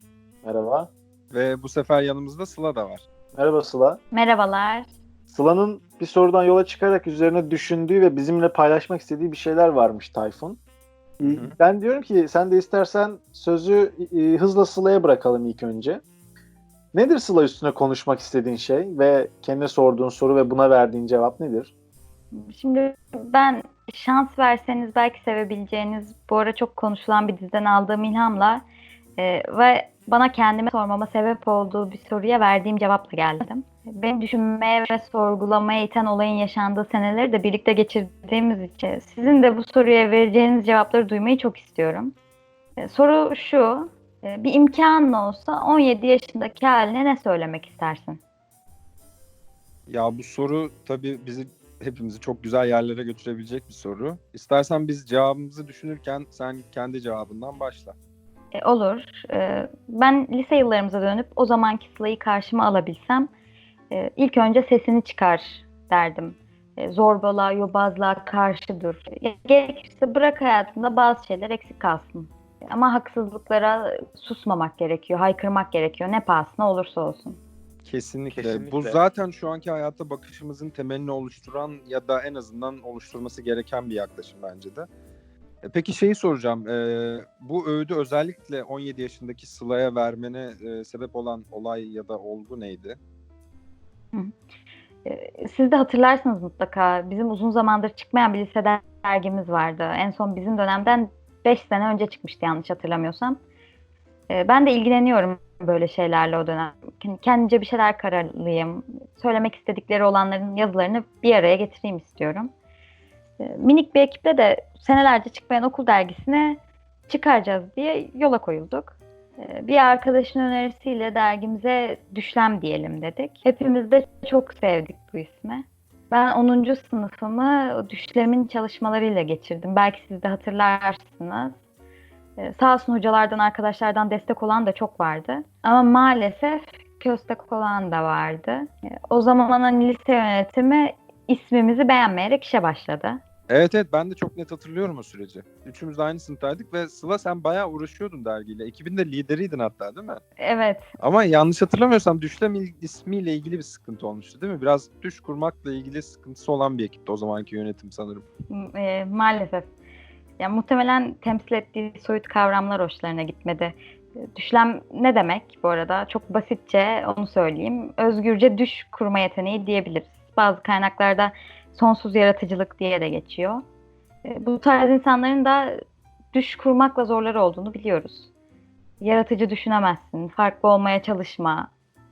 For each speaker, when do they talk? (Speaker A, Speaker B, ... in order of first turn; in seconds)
Speaker A: 0.4-0.9, 3.3-4.0, 5.3-10.6, 11.2-16.0, 16.9-21.7, 78.3-79.0
Speaker B: 1.3-3.0, 11.2-11.5, 49.9-57.9, 77.8-84.9, 85.6-93.0, 143.5-150.2, 151.0-158.2
Speaker C: 4.1-4.9, 22.3-28.6, 29.2-42.1, 42.8-48.2, 58.5-63.3, 63.9-77.4, 95.0-103.4, 104.3-112.5, 113.4-131.6, 132.4-143.2, 150.4-150.9, 158.5-159.7, 160.4-173.6, 174.2-175.8, 176.3-178.3, 179.0-181.7